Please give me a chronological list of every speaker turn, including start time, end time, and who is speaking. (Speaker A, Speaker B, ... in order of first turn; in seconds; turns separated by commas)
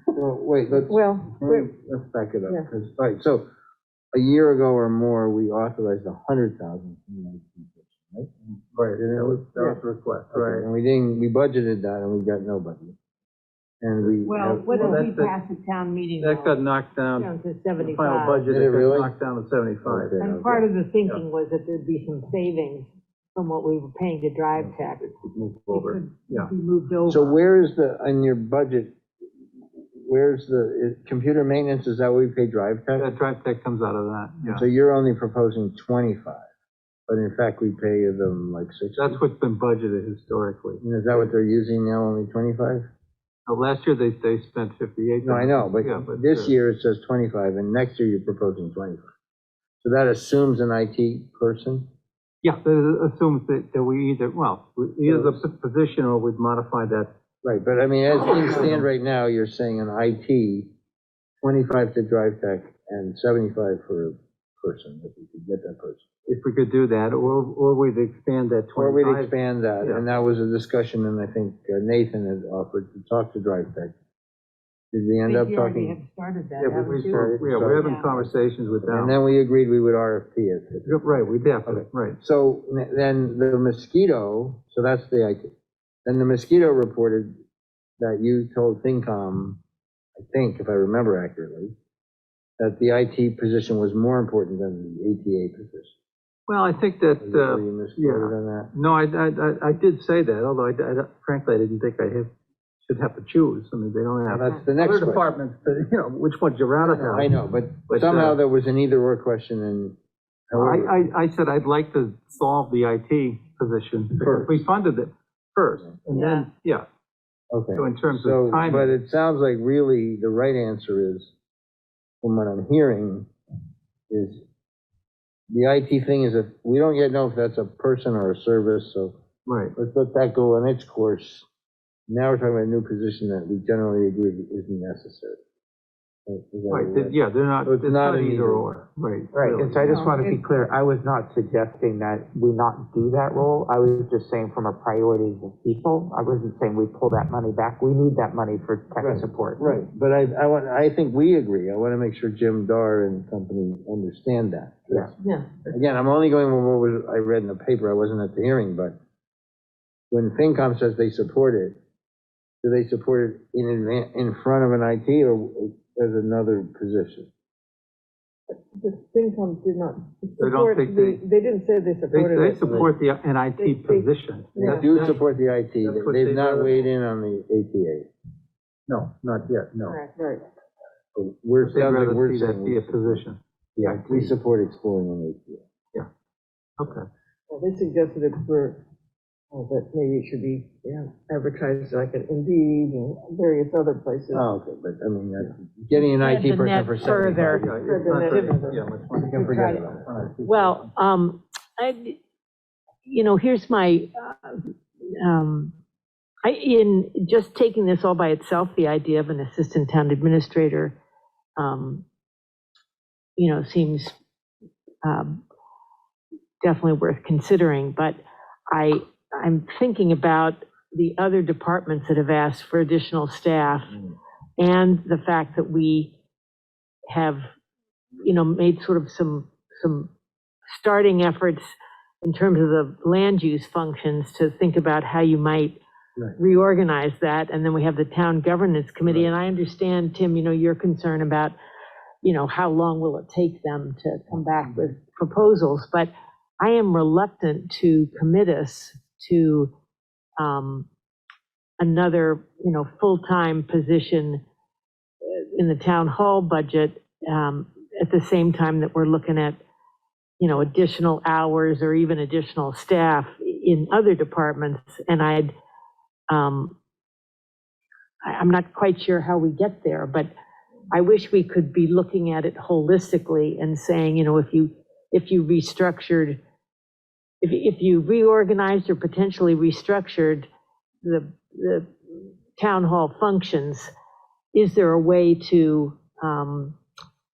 Speaker A: 0.1-3.5, Speaker B: 0.9-1.7, Speaker A: 4.1-8.3, Speaker C: 8.7-10.7, Speaker A: 8.9-9.5, Speaker A: 10.3-12.9, Speaker A: 13.8-14.7, Speaker D: 14.2-16.6, Speaker C: 14.7-15.3, Speaker C: 16.2-20.2, Speaker D: 17.1-18.4, Speaker A: 18.4-19.1, Speaker A: 19.8-20.6, Speaker D: 20.2-25.1, Speaker C: 24.6-26.5, Speaker D: 25.7-27.4, Speaker A: 27.1-28.9, Speaker A: 29.8-33.1, Speaker C: 33.0-34.6, Speaker A: 34.5-36.4, Speaker A: 37.1-39.2, Speaker C: 39.0-41.3, Speaker A: 40.8-42.9, Speaker C: 43.5-46.5, Speaker A: 45.2-49.0, Speaker A: 49.8-51.9, Speaker C: 52.4-57.1, Speaker A: 55.0-55.4, Speaker A: 57.4-60.7, Speaker C: 58.4-58.8, Speaker A: 61.4-66.1, Speaker C: 66.3-70.0, Speaker A: 68.8-74.0, Speaker A: 74.9-76.0, Speaker B: 75.3-76.4, Speaker D: 75.7-78.2, Speaker C: 76.6-79.1, Speaker E: 77.1-77.7, Speaker A: 77.1-78.3, Speaker A: 78.8-81.0, Speaker C: 80.8-82.2, Speaker A: 81.7-85.5, Speaker A: 86.0-87.3, Speaker A: 88.0-89.6, Speaker A: 90.2-91.7, Speaker A: 92.6-95.9, Speaker C: 96.5-102.3, Speaker A: 97.2-98.7, Speaker C: 102.8-107.3, Speaker A: 104.3-105.3, Speaker A: 106.8-110.0, Speaker C: 107.9-108.4, Speaker A: 110.5-111.0, Speaker C: 110.5-116.8, Speaker A: 114.2-114.5, Speaker A: 117.5-121.3, Speaker C: 117.7-118.9, Speaker A: 122.2-123.3, Speaker A: 124.1-124.4, Speaker A: 125.5-129.2, Speaker C: 129.4-129.7, Speaker A: 129.7-131.5, Speaker A: 132.1-135.4, Speaker A: 136.3-138.7, Speaker C: 136.7-139.9, Speaker E: 139.3-149.8, Speaker D: 139.9-140.4, Speaker A: 149.0-155.2, Speaker D: 155.2-155.6, Speaker A: 155.7-158.9, Speaker A: 160.1-161.8, Speaker A: 162.6-167.3, Speaker B: 168.5-172.9, Speaker C: 170.4-171.2, Speaker C: 172.1-175.2, Speaker B: 173.6-175.1, Speaker A: 174.6-178.1, Speaker C: 175.8-176.8, Speaker C: 178.9-180.0, Speaker B: 180.1-180.4, Speaker A: 181.1-183.2, Speaker C: 181.6-184.3, Speaker A: 183.8-185.6, Speaker C: 186.8-187.1, Speaker B: 187.5-188.8, Speaker B: 189.5-194.4, Speaker A: 194.3-197.9, Speaker D: 196.2-197.7, Speaker C: 197.6-200.9, Speaker B: 197.7-199.6, Speaker D: 198.3-198.6, Speaker A: 199.1-200.1, Speaker D: 200.4-202.2, Speaker D: 203.0-205.7, Speaker D: 206.4-210.9, Speaker D: 211.6-212.0, Speaker D: 213.3-214.2, Speaker D: 215.0-215.4, Speaker D: 216.6-224.0, Speaker D: 224.6-226.2, Speaker D: 227.1-227.4, Speaker D: 228.2-230.1, Speaker D: 230.7-235.8, Speaker D: 236.4-241.5, Speaker D: 242.2-249.7, Speaker D: 250.4-250.9, Speaker D: 251.8-254.4, Speaker D: 255.2-259.6, Speaker D: 260.4-265.5, Speaker D: 266.3-266.7, Speaker D: 268.2-270.3, Speaker D: 270.9-276.4, Speaker D: 277.4-280.5, Speaker D: 281.0-281.9, Speaker D: 282.6-283.9, Speaker D: 284.5-286.8